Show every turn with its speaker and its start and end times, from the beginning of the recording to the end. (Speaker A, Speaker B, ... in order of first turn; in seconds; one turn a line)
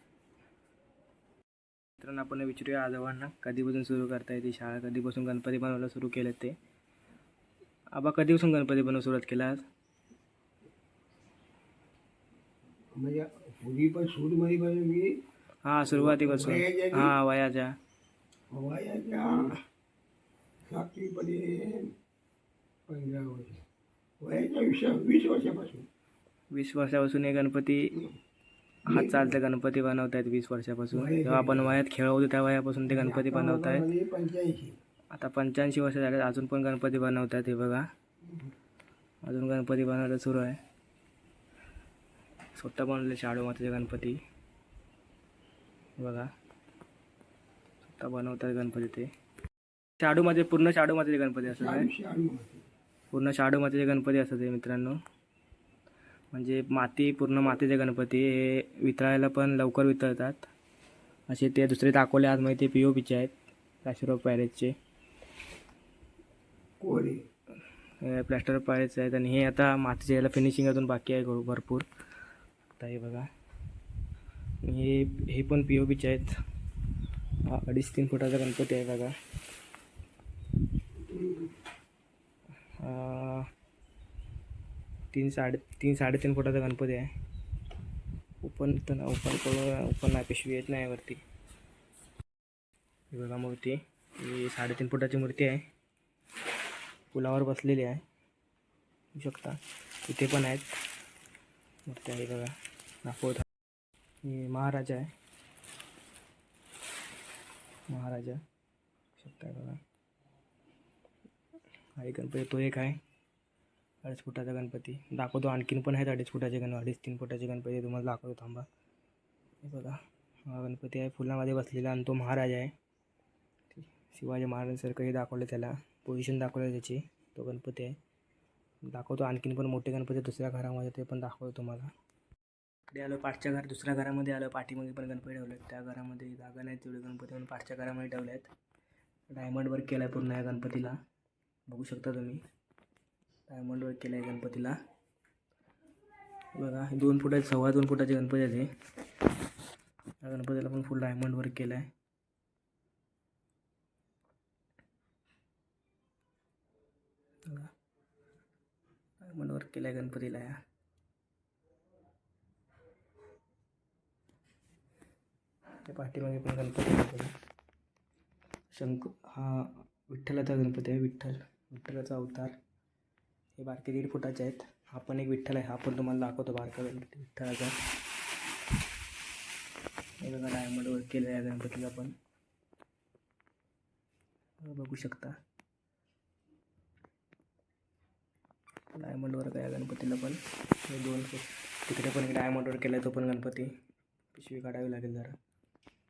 Speaker A: 2.0-6.6
Speaker A: 7.9-9.6
Speaker B: 12.9-15.2
Speaker A: 15.6-17.8
Speaker B: 15.9-17.1
Speaker B: 18.5-19.6
Speaker B: 20.7-21.9
Speaker B: 22.9-23.6
Speaker B: 24.2-25.9
Speaker A: 26.5-28.0
Speaker B: 28.9-29.4
Speaker A: 28.9-33.9
Speaker B: 30.9-31.8
Speaker B: 32.9-34.8
Speaker A: 35.1-37.9
Speaker A: 39.2-40.6
Speaker A: 42.5-44.2
Speaker A: 46.0-46.3
Speaker A: 47.8-49.1
Speaker A: 50.0-51.9
Speaker B: 51.5-52.6
Speaker A: 53.1-55.0
Speaker A: 56.3-60.5
Speaker A: 61.3-63.3
Speaker A: 63.8-64.7
Speaker B: 66.8-67.2
Speaker A: 68.0-71.9
Speaker A: 72.8-73.3
Speaker A: 74.6-76.4
Speaker A: 77.4-79.1
Speaker A: 82.8-83.5
Speaker A: 85.1-87.1
Speaker A: 88.4-91.2
Speaker A: 93.1-95.7
Speaker A: 97.1-98.0
Speaker A: 99.1-100.8
Speaker A: 101.9-103.5
Speaker A: 104.2-105.1
Speaker A: 107.9-108.4
Speaker A: 109.2-109.8
Speaker A: 112.0-113.0
Speaker A: 114.0-118.7
Speaker A: 119.6-122.7
Speaker A: 123.7-128.0
Speaker A: 128.8-131.9
Speaker A: 132.9-138.5
Speaker A: 139.3-141.0
Speaker A: 141.7-142.4
Speaker A: 143.5-144.8
Speaker A: 146.5-148.7
Speaker A: 150.2-151.9
Speaker A: 157.4-157.7
Speaker A: 159.2-160.6
Speaker A: 165.8-167.3
Speaker A: 168.7-172.6
Speaker A: 173.6-177.8
Speaker A: 180.2-182.2
Speaker A: 184.6-185.4
Speaker A: 188.9-193.7
Speaker A: 194.3-195.4